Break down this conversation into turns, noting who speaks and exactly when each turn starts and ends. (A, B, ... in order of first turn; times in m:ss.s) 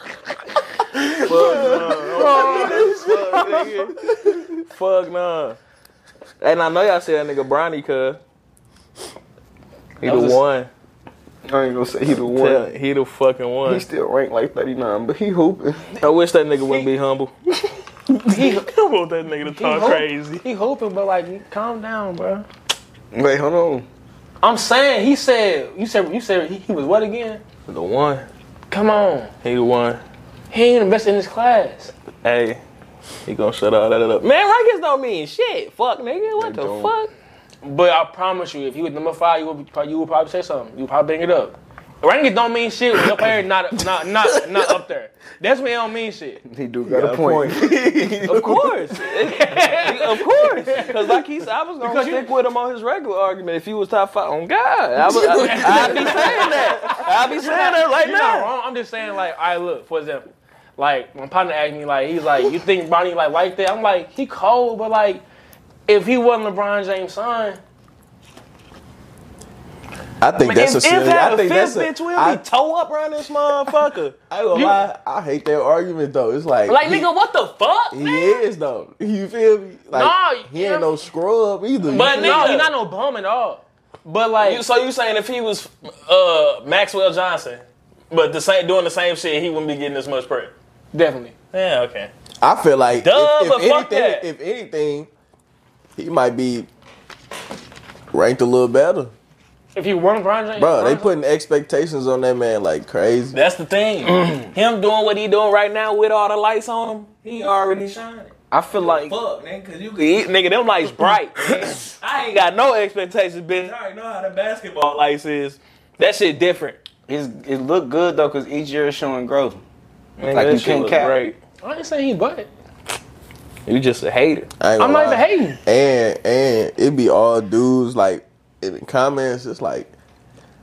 0:01.1-0:03.9 A
0:01.2-0:03.6 B
0:01.3-0:01.9 C
0:02.1-0:03.8 D
0:04.5-0:05.6 A
0:06.4-0:08.2 A
0:10.0-0:10.4 C
0:10.0-0:10.7 A
0:11.4-0:12.7 C
0:12.3-0:13.8 A
0:13.6-0:15.9 C
0:16.0-0:20.4 A
0:18.2-0:18.7 D
0:19.4-0:22.5 D
0:23.1-0:23.9 C
0:24.4-0:27.4 D
0:27.7-0:28.2 A
0:28.7-0:29.3 D
0:29.4-0:30.0 A
0:30.5-0:31.9 D
0:32.2-0:32.6 A
0:33.2-0:37.1 A
0:36.4-0:36.9 B
0:37.6-0:46.4 D
0:46.4-0:48.7 C
0:46.9-0:58.5 A
0:49.0-0:51.2 D
0:51.8-0:52.3 D
0:55.0-0:56.7 C
0:55.3-1:05.2 D
1:05.9-1:07.6 D
1:10.2-1:12.4 B
1:10.4-1:14.2 A
1:14.3-1:17.1 B
1:14.5-1:14.8 D
1:16.7-1:18.4 A
1:17.9-1:22.6 B
1:19.9-1:20.9 D
1:21.8-1:22.7 A
1:21.9-1:24.6 D
1:24.4-1:30.5 A
1:30.9-1:31.3 D
1:31.5-1:32.1 A
1:32.4-1:35.1 B
1:32.9-1:34.3 A
1:36.0-1:36.7 B
1:38.1-1:39.1 B
1:39.7-1:41.1 D
1:40.6-1:43.4 B
1:43.3-1:56.8 A
1:48.5-1:49.1 C
1:57.1-1:59.6 C
2:00.2-2:01.4 A
2:00.3-2:01.2 C
2:01.6-2:02.5 D
2:03.7-2:04.5 A
2:04.6-2:09.9 B
2:04.8-2:05.6 D